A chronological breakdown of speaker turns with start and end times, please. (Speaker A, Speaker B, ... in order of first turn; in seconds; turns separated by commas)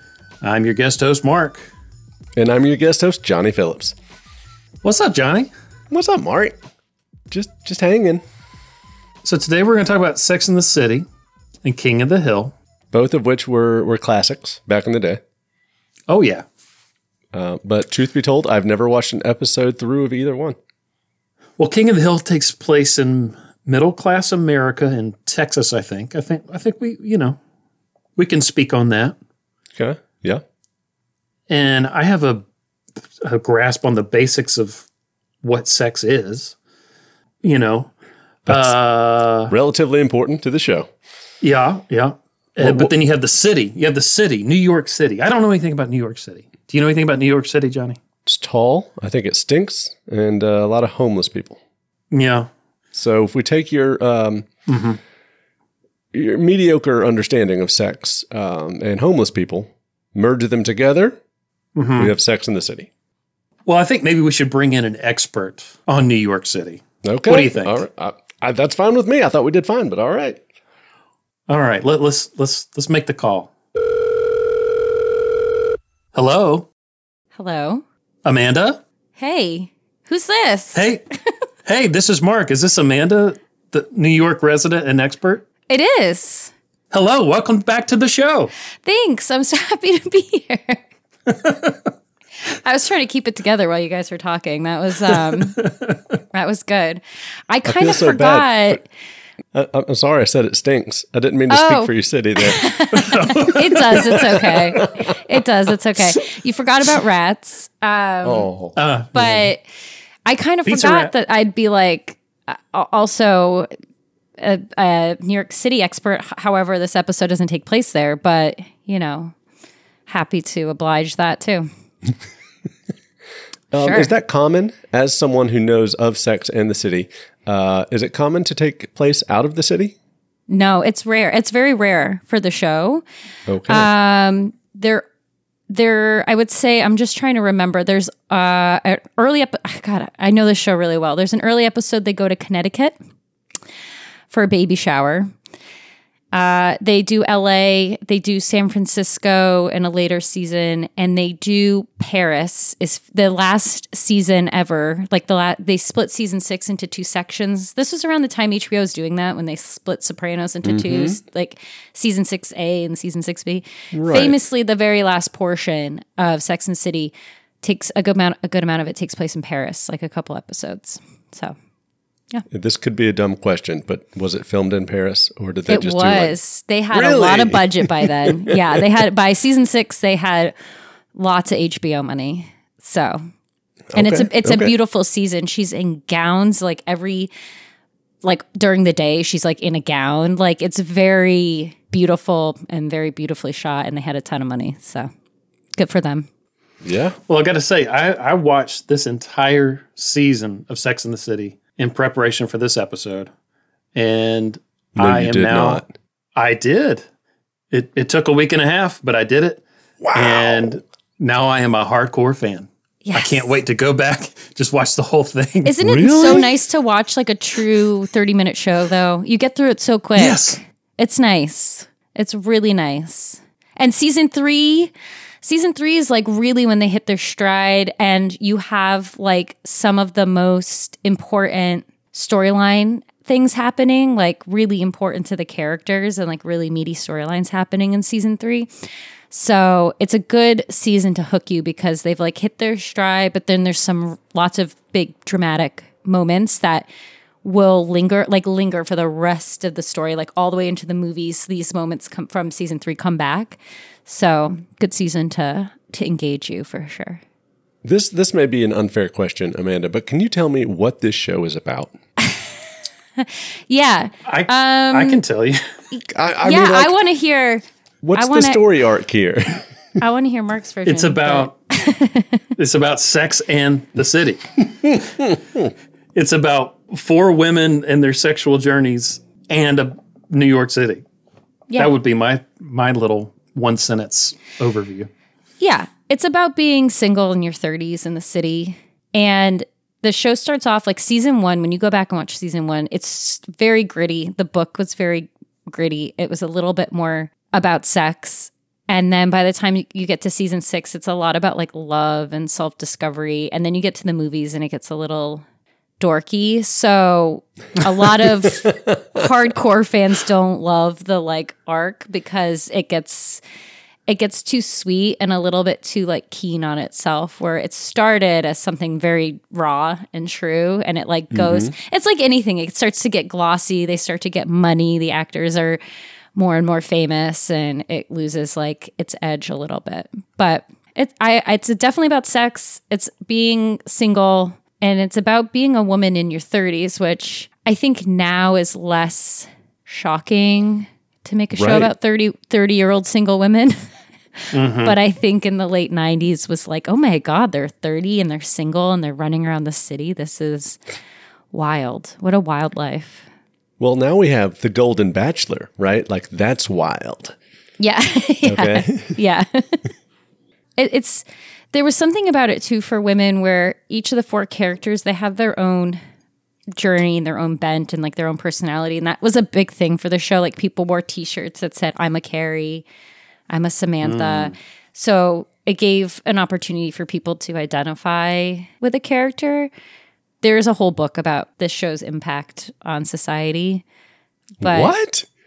Speaker A: 0.4-1.7, Speaker B: 2.4-4.0, Speaker A: 4.8-5.5, Speaker B: 5.9-6.6, Speaker B: 7.3-8.2, Speaker A: 9.2-11.1, Speaker A: 11.6-12.5, Speaker B: 12.9-15.2, Speaker A: 16.1-16.4, Speaker B: 17.3-20.6, Speaker A: 21.6-27.4, Speaker A: 28.2-29.1, Speaker B: 29.7-30.4, Speaker A: 31.5-32.4, Speaker A: 33.2-34.8, Speaker A: 35.4-36.5, Speaker A: 37.4-37.9, Speaker A: 38.5-39.5, Speaker B: 38.5-38.8, Speaker B: 39.5-40.9, Speaker A: 41.4-48.0, Speaker B: 42.6-42.9, Speaker B: 48.2-51.6, Speaker A: 52.1-52.5, Speaker B: 52.9-54.5, Speaker A: 54.7-55.0, Speaker B: 56.1-61.2, Speaker A: 61.8-62.1, Speaker B: 62.0-62.9, Speaker A: 63.6-67.8, Speaker B: 67.0-70.4, Speaker A: 71.5-73.5, Speaker A: 76.1-76.7, Speaker C: 77.3-77.8, Speaker A: 78.2-78.8, Speaker C: 79.2-80.9, Speaker A: 80.7-81.0, Speaker A: 81.7-85.4, Speaker C: 85.7-86.5, Speaker A: 86.9-88.5, Speaker C: 88.8-90.8, Speaker A: 91.3-91.7, Speaker C: 92.6-95.6, Speaker A: 95.3-96.0, Speaker C: 96.3-98.9, Speaker B: 97.6-98.8, Speaker B: 99.5-102.7, Speaker C: 101.5-108.5, Speaker A: 102.9-104.3, Speaker B: 103.9-105.1, Speaker B: 108.2-108.8, Speaker A: 108.8-109.5, Speaker C: 109.1-109.6, Speaker C: 110.2-113.7, Speaker A: 110.6-111.1, Speaker C: 114.4-119.3, Speaker C: 120.1-121.7, Speaker B: 123.7-129.9, Speaker C: 123.8-124.1, Speaker C: 130.5-133.0, Speaker B: 133.5-133.9, Speaker C: 133.7-135.1, Speaker C: 135.7-142.9, Speaker C: 144.3-145.3, Speaker C: 146.3-171.6, Speaker B: 160.6-161.2, Speaker B: 163.9-164.3, Speaker B: 172.5-176.4, Speaker C: 175.7-180.5, Speaker B: 176.9-178.8, Speaker C: 181.1-183.2, Speaker B: 183.9-184.7, Speaker C: 183.9-187.3, Speaker C: 188.2-195.1, Speaker C: 195.8-196.3, Speaker B: 196.8-197.2, Speaker A: 197.3-203.3, Speaker A: 203.9-205.8, Speaker B: 204.9-205.9, Speaker A: 206.3-207.0, Speaker A: 207.7-209.6, Speaker B: 210.0-210.8, Speaker A: 210.1-215.7, Speaker C: 213.0-213.5, Speaker C: 215.6-224.9, Speaker B: 215.8-216.5, Speaker A: 220.2-220.6, Speaker C: 225.4-238.7, Speaker C: 239.3-246.9, Speaker C: 247.4-257.2, Speaker B: 257.8-261.9, Speaker C: 263.2-265.2, Speaker A: 264.2-265.6, Speaker C: 265.9-267.6, Speaker B: 266.0-266.9, Speaker B: 268.0-269.7, Speaker C: 268.1-268.6, Speaker C: 270.0-272.4, Speaker A: 270.9-271.5, Speaker A: 272.6-274.5, Speaker A: 276.1-281.0, Speaker A: 281.8-285.1, Speaker C: 285.6-305.4, Speaker C: 306.0-313.4, Speaker B: 308.6-309.0, Speaker C: 314.1-325.8, Speaker B: 321.3-321.7, Speaker C: 326.3-343.9, Speaker B: 341.5-341.9, Speaker C: 344.4-350.8, Speaker A: 344.5-345.0, Speaker C: 351.5-353.3, Speaker B: 353.8-357.4, Speaker C: 357.8-359.9, Speaker B: 358.4-359.2, Speaker C: 360.8-366.0, Speaker C: 366.7-372.8, Speaker C: 373.5-379.7, Speaker A: 374.0-374.5, Speaker C: 380.4-383.8, Speaker C: 384.6-384.9, Speaker B: 384.6-385.2